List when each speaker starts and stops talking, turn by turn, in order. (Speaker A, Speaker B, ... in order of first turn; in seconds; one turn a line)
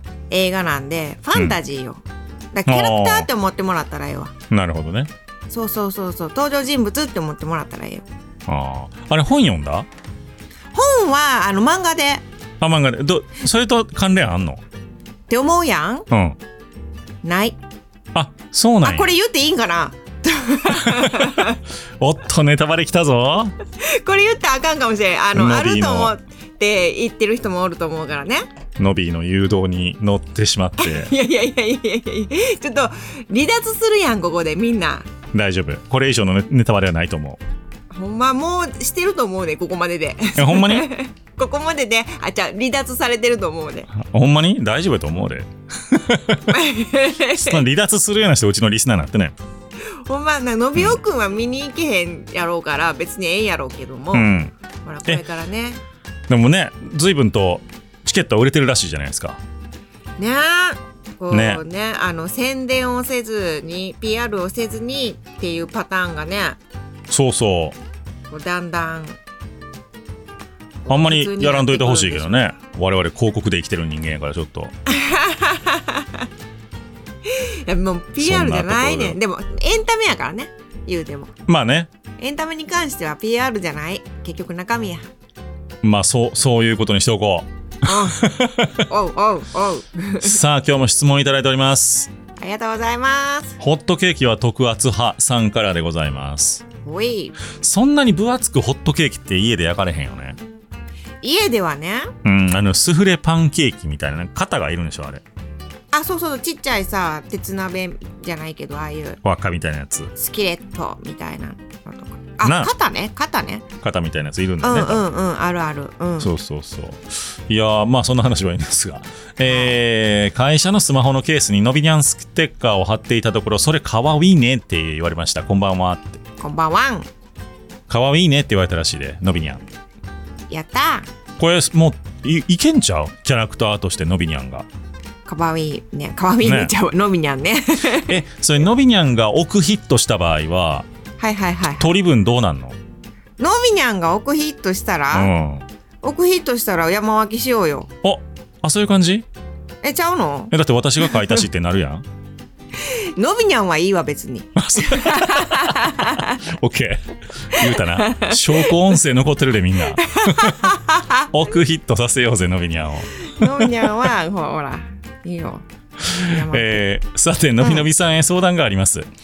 Speaker A: 0.3-4.3
Speaker B: 2.7-3.3
Speaker B: 4.5-5.1
Speaker A: 5.5-8.0
Speaker B: 8.5-9.9
Speaker A: 10.7-12.2
Speaker B: 12.6-14.6
Speaker A: 15.3-16.1
Speaker B: 16.1-16.4
Speaker A: 17.2-17.6
Speaker B: 18.1-19.1
Speaker A: 18.8-21.6
Speaker B: 20.7-21.5
Speaker B: 22.0-23.6
Speaker A: 23.8-28.4
Speaker B: 25.3-26.1
Speaker B: 28.8-31.1
Speaker A: 30.8-35.1
Speaker B: 35.3-37.4
Speaker A: 37.9-43.9
Speaker B: 40.4-40.9
Speaker B: 44.0-46.4
Speaker A: 46.5-47.6
Speaker B: 47.3-49.4
Speaker A: 50.0-54.3
Speaker B: 54.1-54.5
Speaker A: 54.8-55.8
Speaker B: 56.3-59.4
Speaker A: 60.2-66.6
Speaker B: 61.3-61.6
Speaker B: 67.1-67.8
Speaker A: 68.3-69.2
Speaker A: 70.8-72.4
Speaker B: 70.9-74.7
Speaker A: 74.9-76.3
Speaker A: 77.3-81.3
Speaker B: 78.2-79.2
Speaker B: 81.5-81.9
Speaker A: 82.2-85.0
Speaker B: 85.8-88.8
Speaker A: 87.8-90.4
Speaker B: 90.2-92.1
Speaker A: 92.4-93.6
Speaker B: 93.6-96.6
Speaker A: 96.8-97.4
Speaker B: 97.5-100.4
Speaker A: 101.2-102.1
Speaker B: 102.2-105.2
Speaker A: 105.9-109.2
Speaker B: 109.2-110.1
Speaker A: 110.2-113.7
Speaker B: 112.4-112.7
Speaker B: 113.8-115.1
Speaker A: 114.6-116.3
Speaker B: 116.2-126.2
Speaker A: 119.5-119.7
Speaker A: 126.4-127.1
Speaker B: 127.9-129.6
Speaker A: 130.5-131.1
Speaker B: 131.4-134.7
Speaker A: 135.3-138.2
Speaker B: 136.4-136.7
Speaker B: 138.0-140.9
Speaker A: 141.2-142.0
Speaker B: 141.8-142.8
Speaker A: 143.4-145.3
Speaker B: 145.1-145.7
Speaker A: 146.0-147.9
Speaker B: 148.0-149.3
Speaker A: 149.8-150.5
Speaker B: 150.5-152.0
Speaker A: 152.8-156.4
Speaker B: 154.6-160.7
Speaker A: 157.5-158.8
Speaker A: 160.0-161.3
Speaker B: 161.3-164.1
Speaker A: 163.3-166.8
Speaker B: 166.2-169.1
Speaker A: 167.6-167.9